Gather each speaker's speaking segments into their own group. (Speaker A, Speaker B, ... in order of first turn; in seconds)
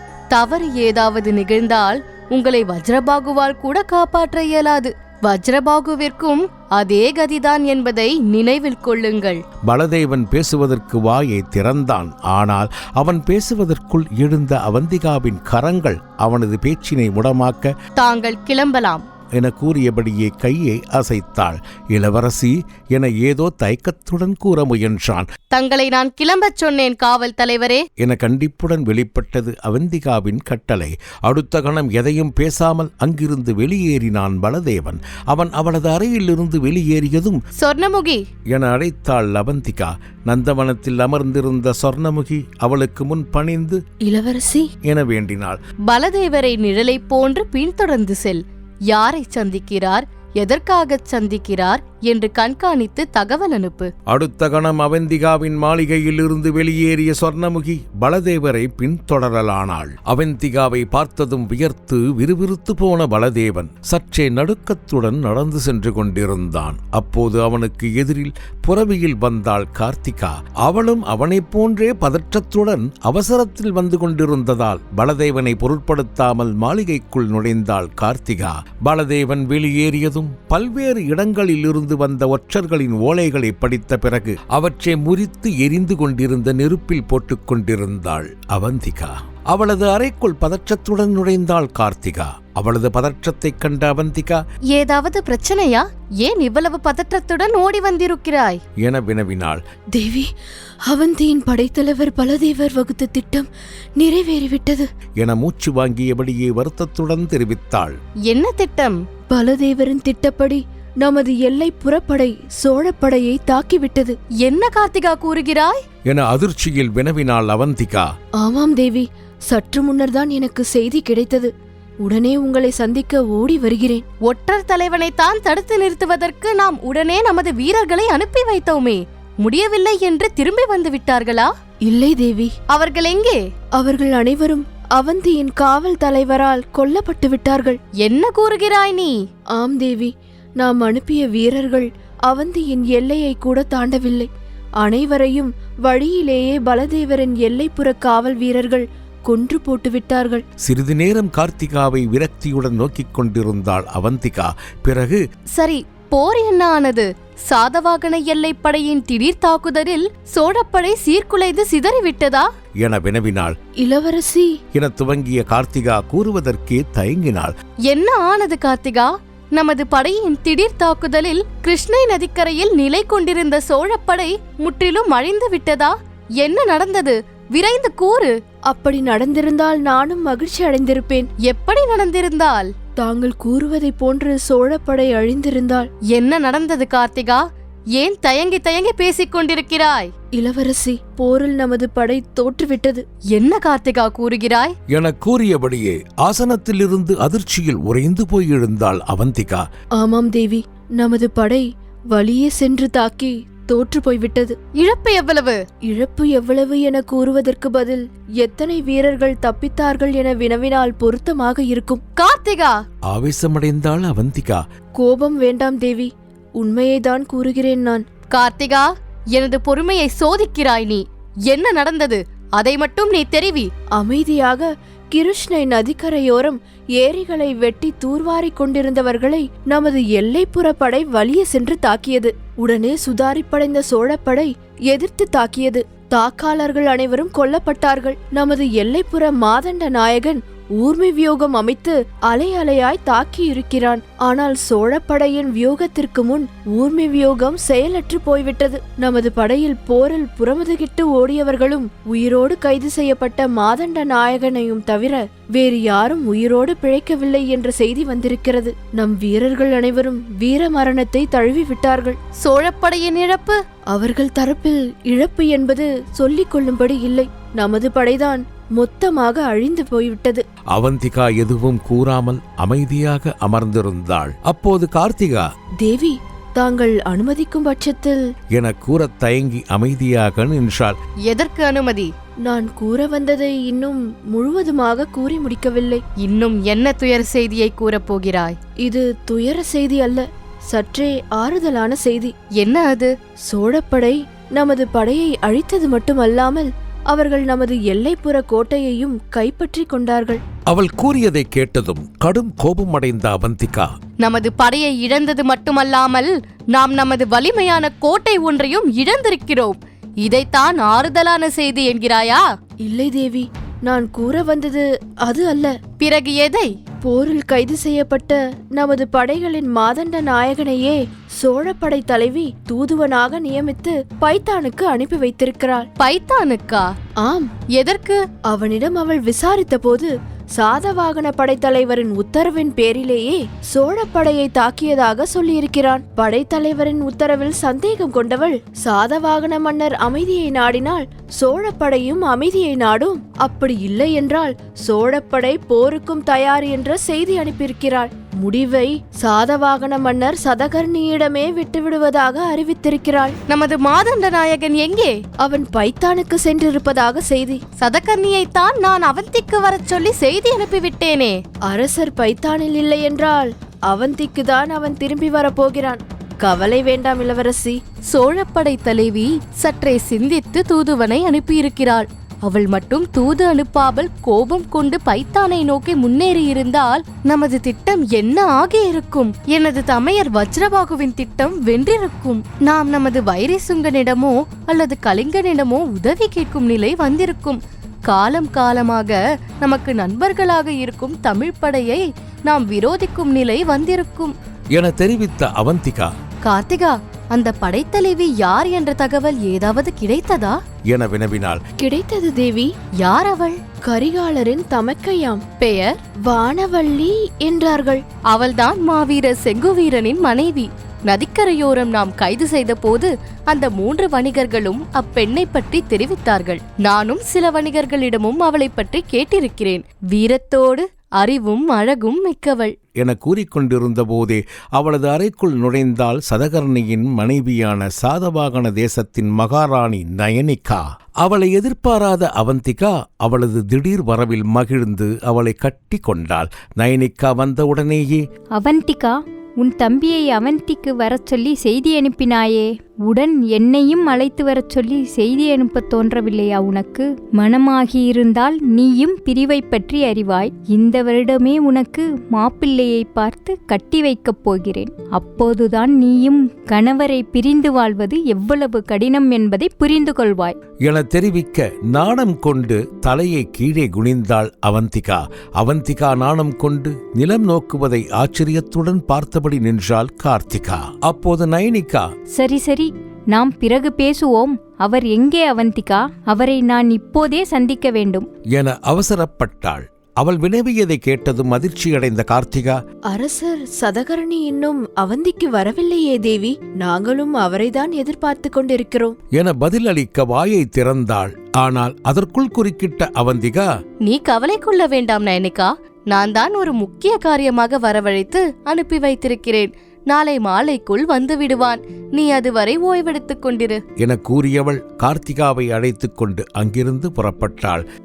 Speaker A: 0.3-9.4, 18.0-19.0, 25.5-27.8, 37.6-38.2, 45.9-53.9, 94.7-98.6, 108.3-109.0, 114.4-115.8, 124.2-131.5, 132.7-133.4, 138.0-139.2, 155.5-162.5, 167.9-178.3, 181.4-182.7, 186.1-187.4, 187.9-190.1, 193.3-194.7, 204.8-205.6, 212.2-212.8, 218.3-223.7, 262.4-263.6, 281.3-282.1, 286.2-288.6, 292.6-293.1, 304.2-312.4, 316.0-316.7, 326.0-326.9, 327.7-328.2, 353.5-355.2, 357.8-361.4, 368.1-394.3, 396.4-400.6, 403.0-403.6, 405.6-406.0, 408.3-422.7, 494.0-503.8
Speaker B: 9.7-17.7, 19.4-25.3, 28.0-37.4, 38.5-43.8, 44.9-45.6, 54.1-94.4, 98.8-99.6, 105.2-108.0, 116.1-118.1, 150.6-155.2, 162.8-163.6, 164.7-167.5, 194.9-199.7, 213.1-214.6, 270.7-275.5, 278.5-281.0, 300.7-303.9, 394.7-396.1, 400.9-401.6, 423.0-438.2, 460.8-472.1, 478.5-482.8, 489.3-493.7, 504.0-507.8
Speaker C: 44.0-44.7, 99.9-100.3, 100.9-104.9, 109.3-114.2, 118.4-121.5, 122.0-124.0, 131.8-132.5, 133.8-137.8, 139.5-144.3, 144.8-150.4, 163.8-164.6, 178.7-181.3, 183.0-185.9, 190.3-193.0, 200.0-204.6, 205.9-212.0, 215.0-218.1, 223.9-262.2, 263.9-270.4, 275.8-278.2, 282.4-286.0, 288.8-292.3, 293.5-300.4, 312.8-315.8, 317.0-325.9, 327.2-327.5, 328.5-353.4, 355.4-357.6, 361.7-367.8, 401.8-402.7, 403.8-405.4, 406.2-408.0, 483.1-489.2
Speaker D: 438.5-460.6, 472.4-478.3